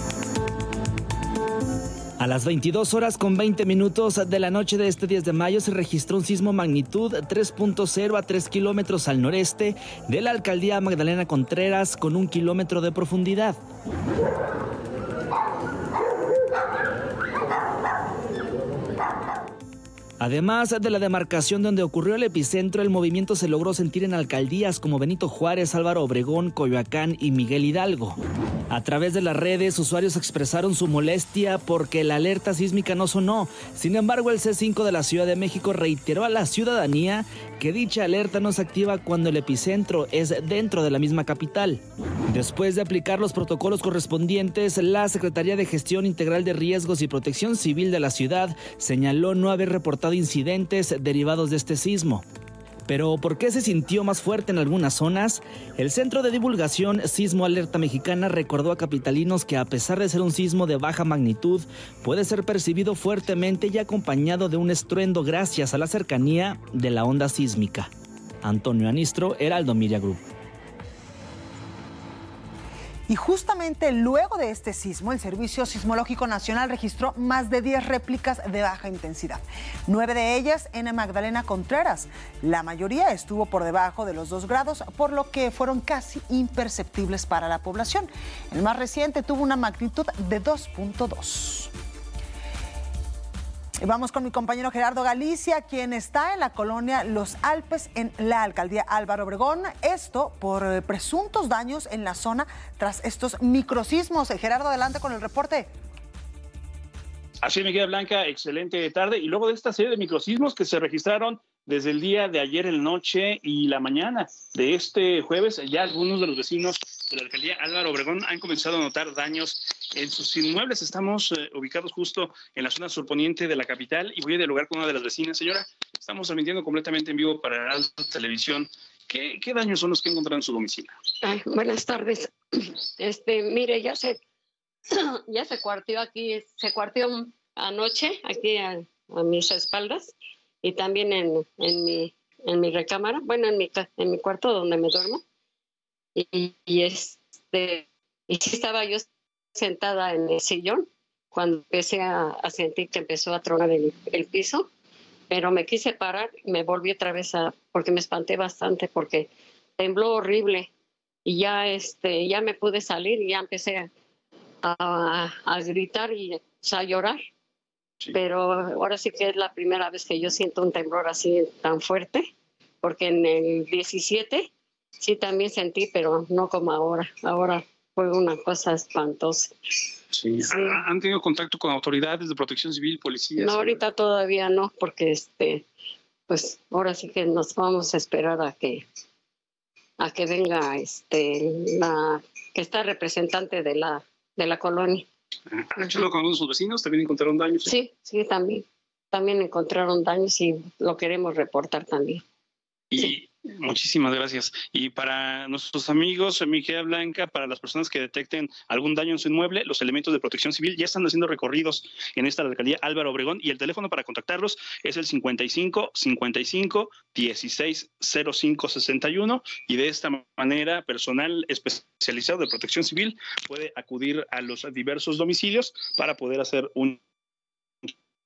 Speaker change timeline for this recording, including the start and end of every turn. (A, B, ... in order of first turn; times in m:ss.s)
0:02.2-0:13.6 A
0:20.2-0:28.2 A
0:28.7-0:52.2 A
0:52.9-1:07.9 A
1:08.4-1:10.2 A
1:13.1-1:31.7 B
1:33.8-1:45.7 B
1:47.4-2:11.0 C
2:11.2-2:14.2 D
2:14.9-2:25.2 D
2:26.2-2:34.7 D
2:35.3-2:40.7 D
2:41.2-2:43.9 D
2:44.6-2:47.2 D
2:48.1-2:52.3 D
2:52.8-2:59.5 D
3:00.1-3:03.8 C
3:00.4-3:00.8 D
3:03.4-3:05.7 D
3:06.3-3:08.8 D
3:10.0-3:15.1 D
3:15.5-3:17.7 C
3:17.7-3:22.2 D
3:22.9-3:47.0 C